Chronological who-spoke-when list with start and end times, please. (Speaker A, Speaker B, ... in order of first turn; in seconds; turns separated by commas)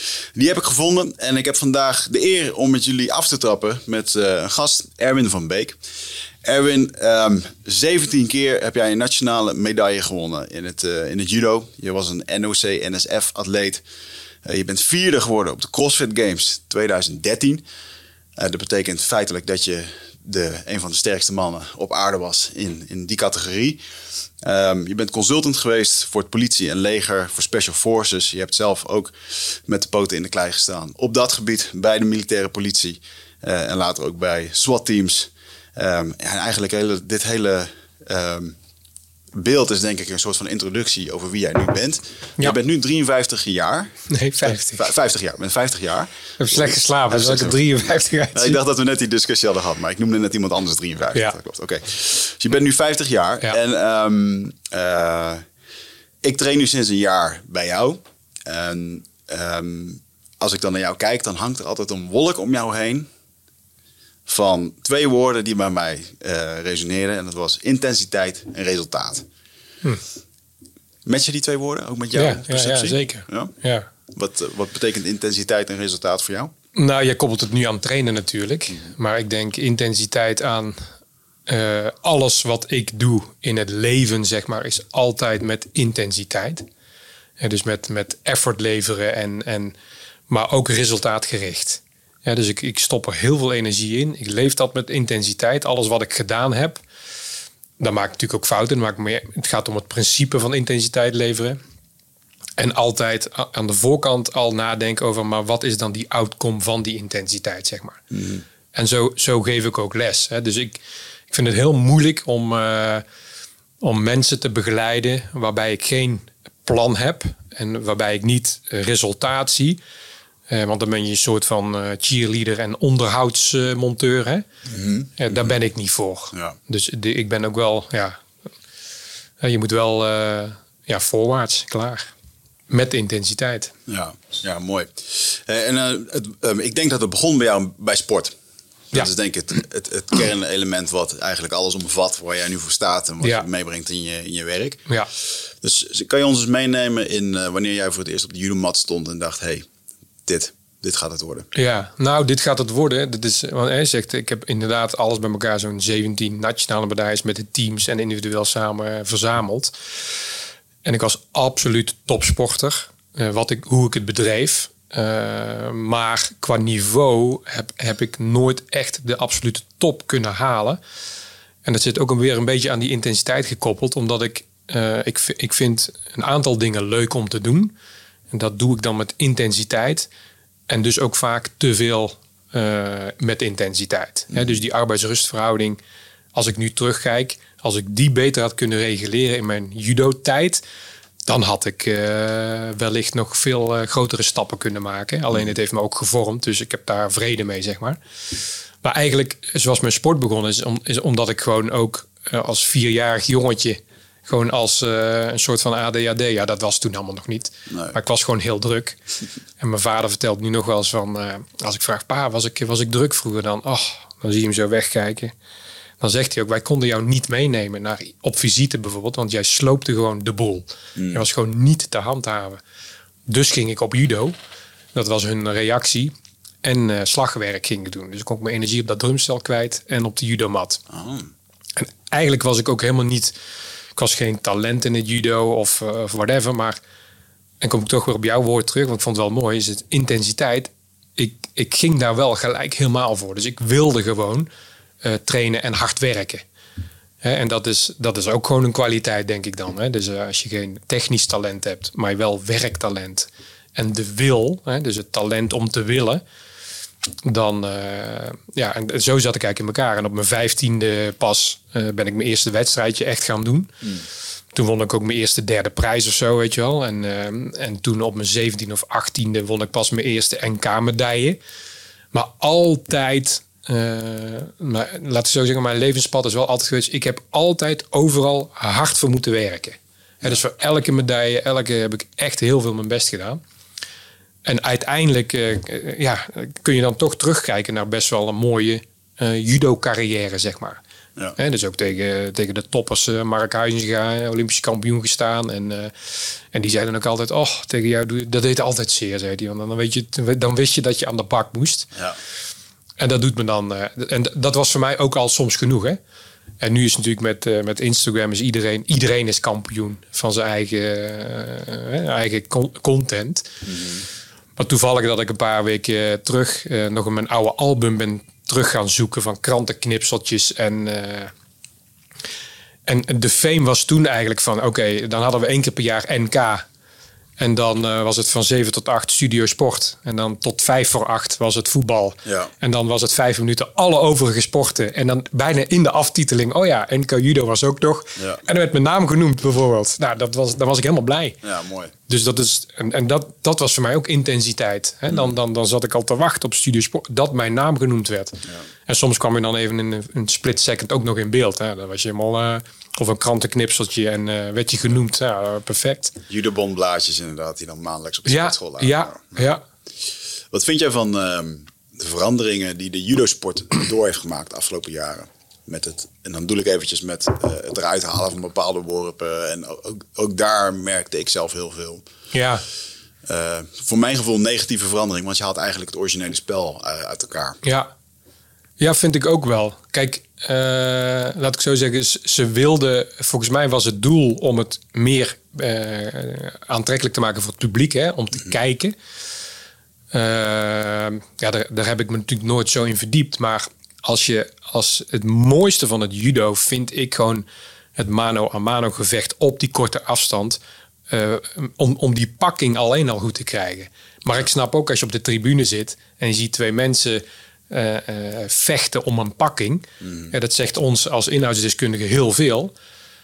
Speaker A: 0.3-5.8, Speaker A: 6.4-13.8, Speaker A: 14.4-17.6, Speaker A: 18.4-23.8, Speaker A: 24.4-38.6, Speaker A: 39.3-47.6, Speaker B: 44.1-44.9, Speaker B: 46.4-48.6, Speaker A: 48.3-55.4, Speaker A: 56.2-63.1, Speaker A: 64.3-69.3, Speaker A: 71.1-73.5, Speaker B: 72.2-73.9, Speaker A: 74.1-76.5, Speaker B: 76.8-80.8, Speaker B: 81.5-86.7, Speaker B: 87.4-89.8, Speaker B: 90.3-96.8, Speaker B: 97.8-101.6, Speaker B: 102.6-108.0, Speaker A: 108.1-108.4, Speaker B: 108.7-110.8, Speaker B: 111.3-113.0, Speaker B: 113.8-119.8, Speaker B: 120.5-124.5, Speaker A: 124.7-125.5, Speaker B: 125.2-128.2, Speaker A: 126.3-126.6, Speaker B: 129.4-132.1, Speaker B: 132.7-133.7, Speaker A: 133.9-138.3, Speaker A: 138.9-144.8, Speaker A: 145.6-149.7, Speaker A: 150.3-151.5, Speaker B: 151.5-159.7, Speaker B: 160.8-170.8, Speaker B: 171.7-177.8, Speaker B: 178.3-180.1, Speaker B: 180.7-185.8, Speaker A: 184.3-184.6, Speaker B: 186.3-190.6, Speaker B: 191.3-198.0, Speaker B: 198.8-209.0, Speaker A: 207.7-208.0, Speaker B: 209.6-215.3, Speaker B: 216.0-222.6, Speaker A: 221.0-221.2, Speaker B: 223.3-224.3, Speaker B: 224.9-230.8, Speaker A: 230.9-231.3, Speaker B: 231.8-233.3, Speaker B: 234.0-236.8, Speaker B: 237.6-244.5, Speaker B: 245.0-246.4, Speaker B: 247.2-256.2, Speaker B: 257.2-263.7, Speaker B: 264.5-271.4, Speaker B: 272.1-283.4, Speaker B: 284.4-290.8, Speaker B: 291.4-295.9, Speaker B: 296.5-301.9, Speaker B: 303.0-306.0, Speaker B: 306.6-313.5, Speaker A: 313.6-314.1, Speaker B: 314.6-321.3, Speaker B: 322.9-326.6, Speaker B: 327.4-341.4, Speaker A: 332.3-332.5, Speaker A: 338.2-338.4, Speaker A: 341.4-341.9, Speaker B: 342.1-356.2, Speaker A: 356.3-359.4, Speaker B: 358.3-359.6, Speaker A: 360.5-372.1, Speaker B: 372.3-372.6, Speaker A: 373.3-377.6, Speaker B: 377.6-377.9, Speaker B: 378.8-389.0, Speaker B: 390.1-412.7, Speaker A: 410.0-410.3